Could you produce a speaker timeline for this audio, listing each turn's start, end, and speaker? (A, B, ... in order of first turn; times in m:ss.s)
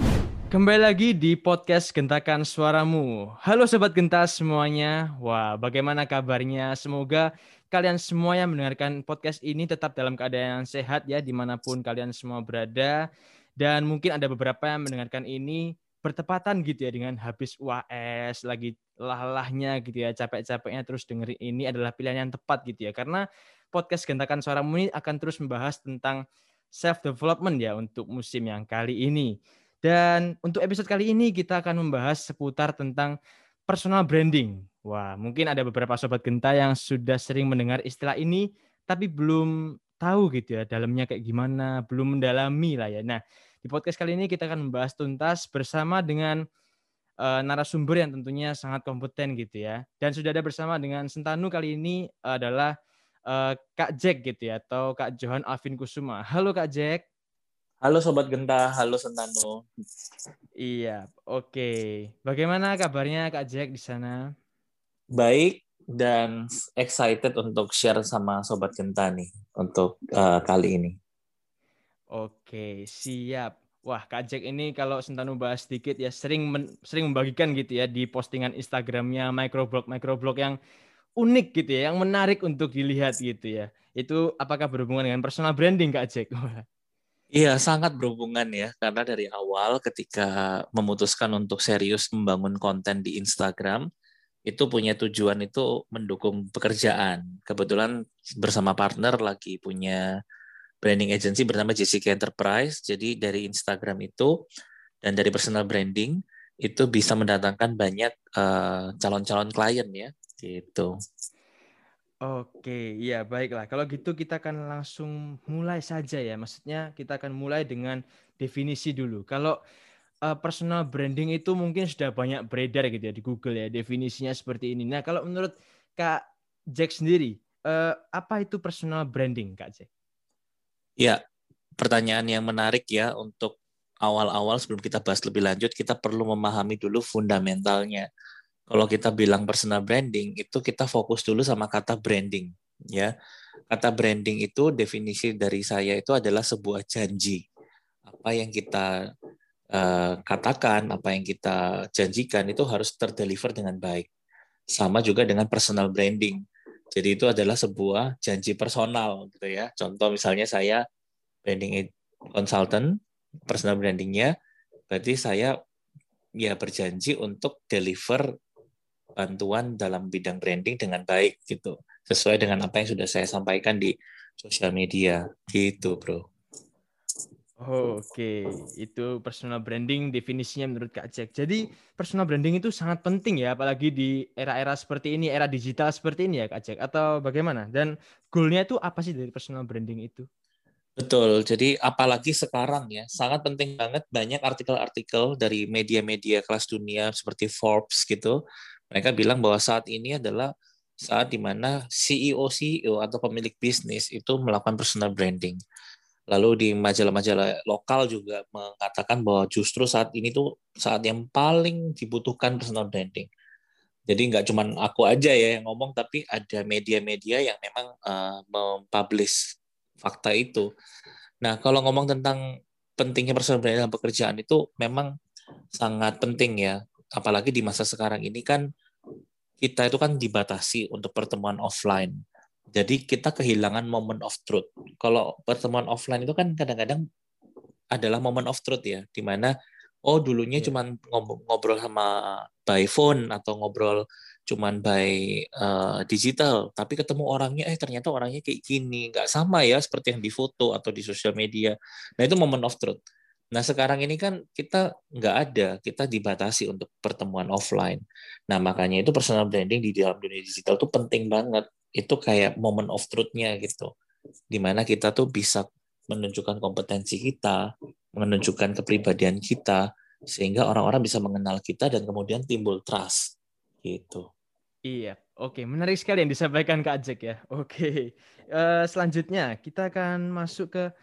0:00.5-0:13.0 A
0:13.6-0:26.2 A
0:26.7-0:29.3 A
0:29.8-0:33.1 A
0:33.7-0:46.4 A
0:47.2-0:52.7 A
0:53.3-0:57.0 A
0:57.8-0:59.6 B
1:00.7-1:01.7 A
1:02.2-1:04.2 A
1:05.2-1:11.0 B
1:12.1-1:20.6 A
1:21.2-1:26.6 A
1:27.3-1:33.8 B
1:34.5-1:40.0 B
1:40.8-1:44.3 B
1:45.0-1:50.9 B
1:52.3-1:59.5 A
2:00.2-2:06.2 A
2:06.8-2:09.9 A
2:11.8-2:18.0 B
2:18.7-2:23.1 B
2:23.7-2:27.4 B
2:28.1-2:28.8 B
2:29.7-2:34.1 B
2:34.8-2:36.4 B
2:36.9-2:40.8 B
2:41.4-2:42.9 B
2:43.5-2:44.3 B
2:44.9-2:45.5 B
2:46.4-2:48.2 B
2:49.2-2:56.2 B
2:57.6-3:10.3 A
3:11.0-3:18.3 B
3:18.9-3:20.5 B
3:21.0-3:25.6 B
3:26.3-3:33.3 B
3:34.1-3:39.4 B
3:40.0-3:40.6 B
3:41.4-3:42.4 B
3:43.0-3:45.1 B
3:45.8-3:48.6 B
3:49.6-3:52.1 B
3:52.7-3:57.0 B
3:57.9-3:59.5 B
4:00.0-4:13.0 B
4:13.5-4:23.9 B
4:24.5-4:27.6 B
4:28.2-4:29.8 B
4:30.3-4:33.2 B
4:33.8-4:34.2 B
4:34.9-4:40.8 A